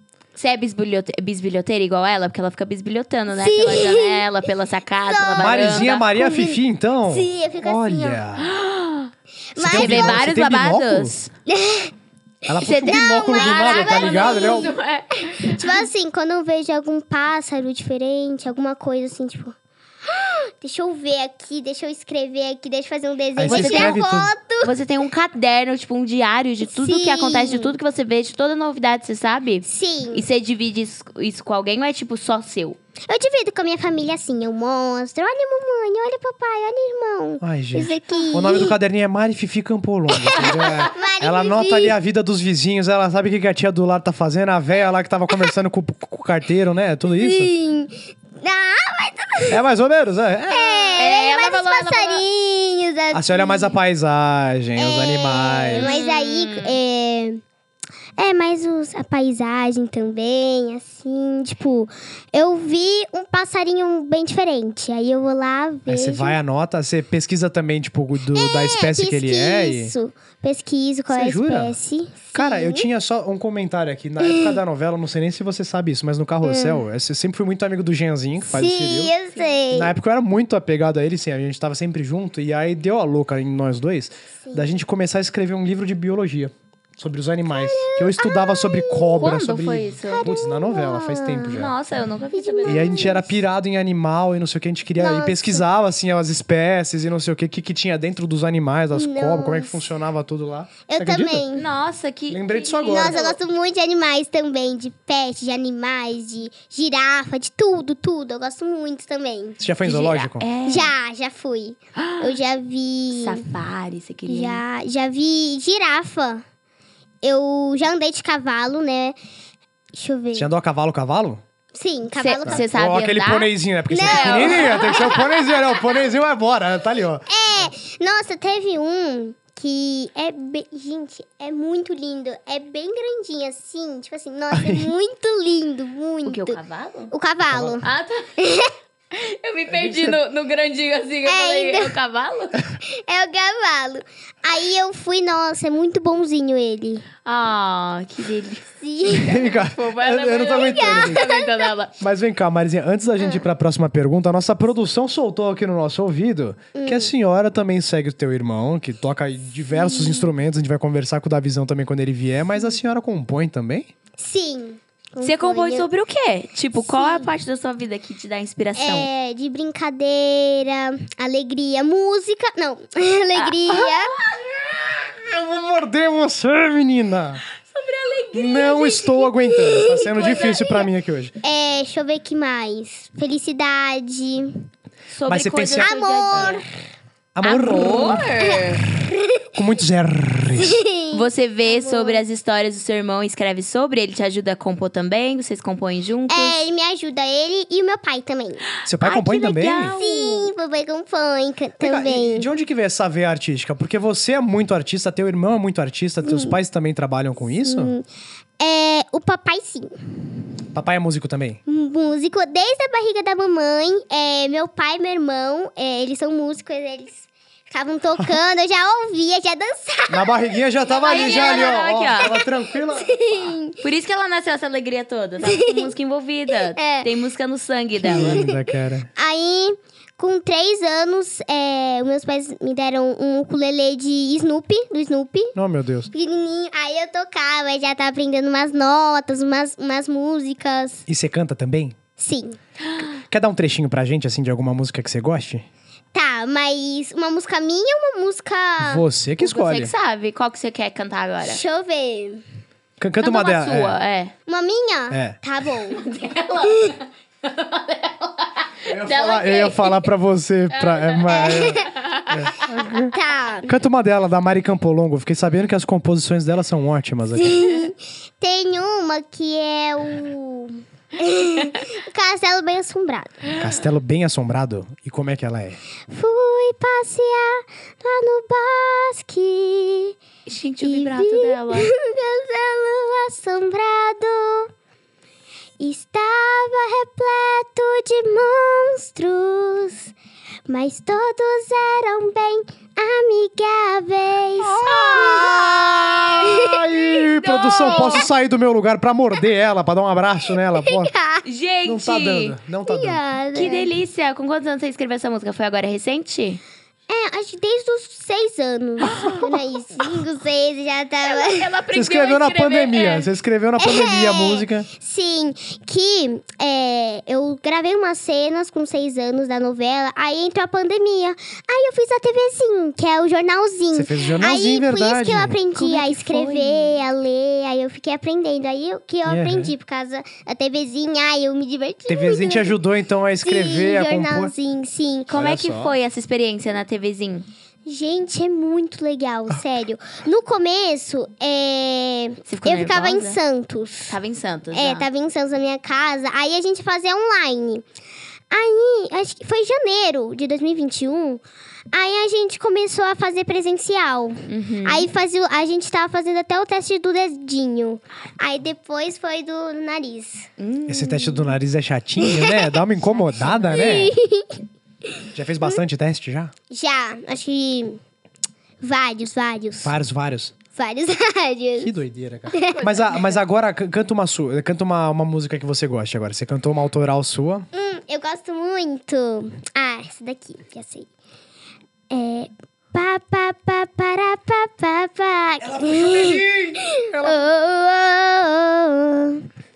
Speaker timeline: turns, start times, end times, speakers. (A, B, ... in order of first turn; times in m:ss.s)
0:00.3-0:06.0 A
0:03.3-0:04.2 B
0:05.1-0:08.2 B
0:05.3-0:08.5 C
0:08.4-0:09.1 A
0:09.5-0:10.3 B
0:09.6-0:11.1 C
0:09.7-0:11.3 A
0:11.5-0:11.9 B
0:12.4-0:14.7 C
0:12.6-0:15.8 A
0:12.8-0:14.7 B
0:15.3-0:19.6 B
0:20.1-0:24.7 B
0:23.4-0:24.3 C
0:23.4-0:24.0 A
0:24.6-0:32.8 A
0:26.7-0:27.8 B
0:29.6-0:30.2 B
0:33.1-0:38.7 B
0:37.4-0:47.5 C
0:40.2-0:42.0 B
0:47.1-0:49.6 B
0:49.5-0:51.0 C
0:50.5-0:53.7 B
0:51.0-0:52.2 A
0:53.1-0:55.9 C
0:54.8-0:57.4 B
0:55.8-0:56.7 A
0:58.2-1:06.4 B
1:05.9-1:09.9 C
1:08.3-1:12.9 B
1:11.1-1:11.7 C
1:12.3-1:19.1 C
1:14.2-1:14.6 B
1:16.4-1:16.8 B
1:18.4-1:19.9 B
1:19.7-1:31.7 C
1:27.5-1:29.3 B
1:29.2-1:30.3 A
1:30.1-1:31.6 B
1:31.5-1:33.3 A
1:32.3-1:33.3 B
1:32.6-1:41.4 C
1:35.0-1:35.6 B
1:38.9-1:39.8 B
1:40.9-1:41.6 B
1:41.5-1:43.4 A
1:42.3-1:43.2 C
1:42.8-1:49.6 B
1:49.6-1:50.5 C
1:49.8-1:50.9 A
1:50.6-1:53.5 B
1:52.0-1:52.3 A
1:53.1-1:54.6 A
1:54.3-1:56.4 B
1:57.2-1:59.2 B
1:59.9-2:00.5 B
2:00.3-2:01.4 C
2:01.7-2:02.6 B
2:02.2-2:05.0 A
2:02.4-2:07.7 C
2:03.9-2:06.0 B
2:07.3-2:16.6 B
2:14.5-2:14.9 C
2:16.2-2:17.1 A
2:17.1-2:17.8 B
2:17.5-2:17.8 C
2:17.8-2:18.2 A
2:18.4-2:18.7 B
2:19.1-2:22.6 A
2:19.7-2:20.2 C
2:21.2-2:21.9 B
2:22.8-2:27.0 B
2:27.2-2:31.9 A
2:28.8-2:29.4 B
2:29.0-2:31.2 C
2:30.5-2:31.7 B
2:32.0-2:43.9 C
2:36.7-2:37.1 B
2:39.7-2:40.3 B
2:44.2-2:45.9 B
2:45.2-2:49.1 A
2:46.7-2:47.3 B
2:48.8-2:54.1 B
2:53.3-2:54.6 A
2:54.8-2:57.4 C
2:57.7-2:59.2 A
2:58.3-3:01.3 C
2:59.6-3:00.6 B
3:00.1-3:00.6 A
3:01.4-3:04.6 B
3:05.1-3:06.6 A
3:05.3-3:06.5 C
3:05.8-3:06.6 B
3:07.3-3:08.3 C
3:07.4-3:08.8 A
3:08.0-3:09.5 B
3:09.5-3:10.8 C
3:10.6-3:12.2 B
3:11.1-3:16.6 A
3:16.3-3:18.6 B
3:18.8-3:19.9 C
3:19.0-3:20.5 A
3:19.8-3:22.5 B
3:21.8-3:27.9 C
3:26.2-3:26.5 B
3:27.6-3:28.0 B
3:28.6-3:29.9 B
3:30.7-3:31.6 C
3:31.7-3:42.4 B
3:40.1-3:43.5 C
3:41.0-3:42.4 A
3:43.0-3:43.8 B
3:43.8-3:48.5 A
3:45.4-3:45.9 B
3:46.7-3:47.1 B
3:48.0-3:48.6 B
3:48.1-3:49.1 C
3:49.2-3:55.5 B
3:55.5-3:56.1 C
3:56.1-4:01.0 B
4:01.1-4:02.0 C
4:02.2-4:02.6 B
4:03.2-4:05.7 C
4:06.1-4:09.0 B
4:08.8-4:09.9 C
4:09.4-4:11.6 A
4:11.4-4:12.4 B
4:13.0-4:14.0 C
4:13.2-4:14.3 A
4:14.4-4:16.0 B
4:15.1-4:15.4 C
4:15.9-4:20.0 A
4:16.6-4:17.0 B
4:18.9-4:23.1 C
4:20.7-4:23.0 A
4:21.3-4:21.9 B
4:23.1-4:23.7 B
4:23.7-4:27.6 C
4:27.4-4:33.5 B
4:33.6-4:35.8 C
4:36.1-4:40.1 B
4:40.4-4:41.9 A
4:40.8-4:44.7 B
4:45.8-4:50.1 B
4:50.7-4:55.5 B
4:54.6-5:01.1 C
4:54.9-4:55.5 A
4:56.4-4:56.7 B
4:57.4-4:58.3 A
4:57.4-4:58.2 B
5:00.8-5:01.4 B
5:01.4-5:02.6 A
5:01.8-5:03.2 C
5:02.9-5:03.9 B
5:03.5-5:06.6 A
5:07.1-5:11.7 B
5:09.1-5:09.6 A
5:11.2-5:13.3 A
5:11.9-5:14.9 C
5:13.8-5:32.8 B
5:23.9-5:25.6 C
5:25.7-5:27.0 A
5:29.2-5:29.7 C
5:32.1-5:34.5 C
5:33.4-5:35.3 B
5:35.3-5:37.5 A
5:35.3-5:35.9 C
5:37.8-5:44.2 B
5:42.5-5:43.4 A
5:44.1-5:45.1 A
5:44.7-5:47.8 B
5:48.5-6:00.5 B
5:54.5-5:55.1 A
6:00.6-6:01.5 A
6:00.9-6:04.1 C
6:02.2-6:02.7 B
6:03.0-6:03.9 A
6:03.7-6:05.8 B
6:05.3-6:06.5 C
6:06.7-6:08.0 B
6:08.8-6:09.9 B
6:09.8-6:10.5 C
6:10.7-6:11.9 B
6:11.8-6:17.7 C
6:12.5-6:13.1 B
6:17.7-6:21.1 B
6:22.1-6:29.4 B
6:25.6-6:27.4 C